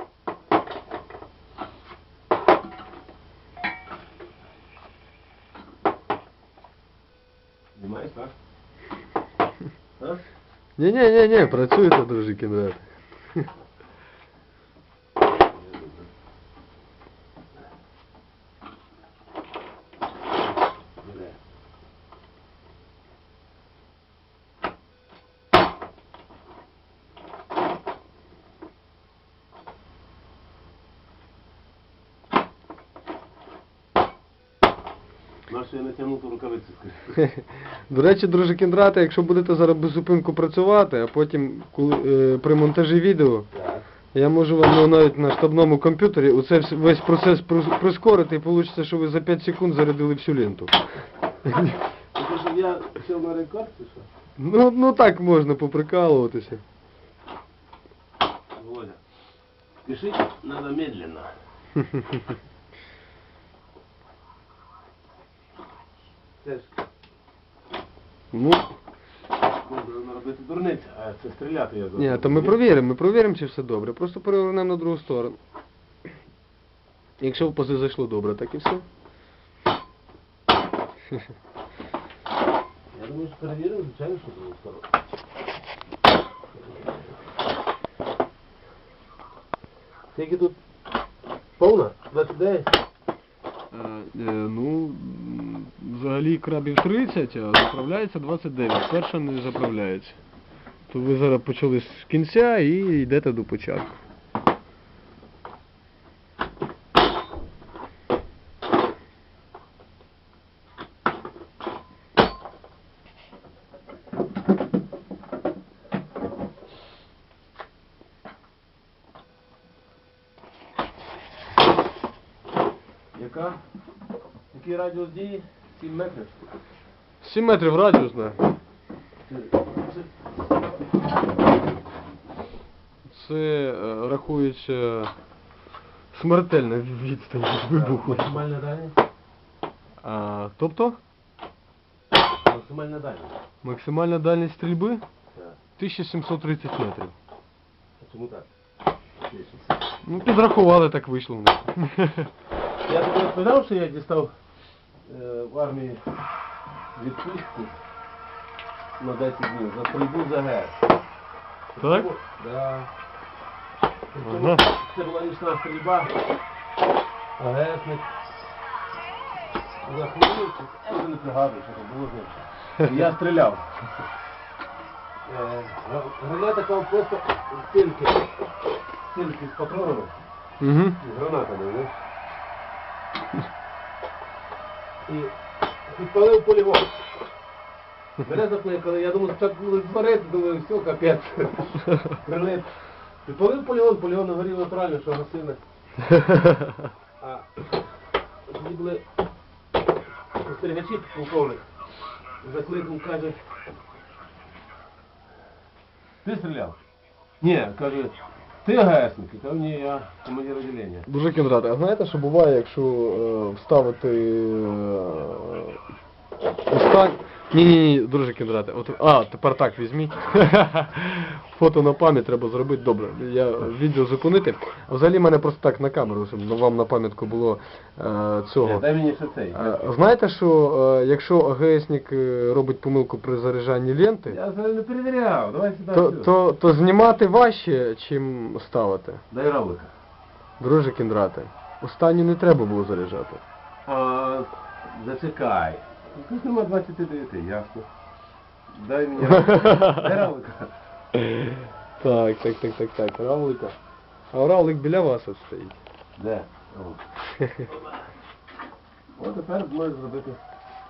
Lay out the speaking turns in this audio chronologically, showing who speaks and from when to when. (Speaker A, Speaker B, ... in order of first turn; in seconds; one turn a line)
Speaker A: 7.8-8.3
Speaker B: 10.8-13.5
Speaker A: 15.5-16.1
Speaker A: 21.0-21.4
Speaker A: 35.5-37.2
Speaker B: 37.2-43.5
Speaker A: 43.5-43.9
Speaker B: 44.1-50.8
Speaker B: 51.5-51.7
Speaker A: 52.1-54.1
Speaker B: 54.4-56.6
Speaker A: 58.5-59.0
Speaker A: 59.8-61.3
Speaker B: 61.8-62.2
Speaker A: 66.4-66.8
Speaker B: 68.3-68.7
Speaker A: 69.6-72.6
Speaker B: 72.0-75.4
Speaker B: 77.2-78.8
Speaker A: 82.9-84.8
Speaker A: 90.1-90.6
Speaker A: 91.6-92.7
Speaker B: 93.7-100.2
Speaker B: 100.9-103.9
Speaker A: 123.1-123.6
Speaker A: 124.5-126.4
Speaker B: 127.2-128.4
Speaker A: 129.3-130.1
Speaker B: 133.1-135.1
Speaker B: 136.1-138.4
Speaker A: 137.7-139.0
Speaker B: 140.0-141.0
Speaker A: 142.4-143.4
Speaker B: 143.6-145.0
Speaker B: 145.8-147.1
Speaker A: 148.0-148.5
Speaker A: 149.2-149.8
Speaker B: 150.1-152.3
Speaker A: 152.8-154.3
Speaker A: 155.1-156.0
Speaker A: 156.9-157.8
Speaker A: 159.0-160.8
Speaker A: 161.8-162.9
Speaker B: 161.8-162.1
Speaker A: 164.1-166.2
Speaker B: 164.2-164.7
Speaker A: 167.4-168.1
Speaker A: 169.8-173.9
Speaker A: 175.2-178.3
Speaker A: 179.1-180.2
Speaker B: 180.6-181.0
Speaker A: 181.0-182.0
Speaker A: 185.1-185.3
Speaker A: 185.9-187.0
Speaker A: 188.2-195.6
Speaker B: 196.2-196.7
Speaker A: 197.2-197.6
Speaker A: 198.5-199.0
Speaker A: 200.4-201.7
Speaker A: 202.4-203.4
Speaker A: 206.2-206.8
Speaker A: 207.4-211.1
Speaker B: 211.1-215.8
Speaker B: 216.7-228.8
Speaker A: 228.6-229.8
Speaker B: 229.5-234.4
Speaker A: 234.3-236.3
Speaker B: 235.9-239.2
Speaker A: 239.3-239.9
Speaker B: 240.6-243.4
Speaker A: 243.9-247.9
Speaker A: 248.7-250.7
Speaker B: 249.2-250.2
Speaker B: 251.2-253.8
Speaker B: 254.3-255.8
Speaker A: 256.2-257.0
Speaker B: 257.4-257.7
Speaker A: 259.2-260.4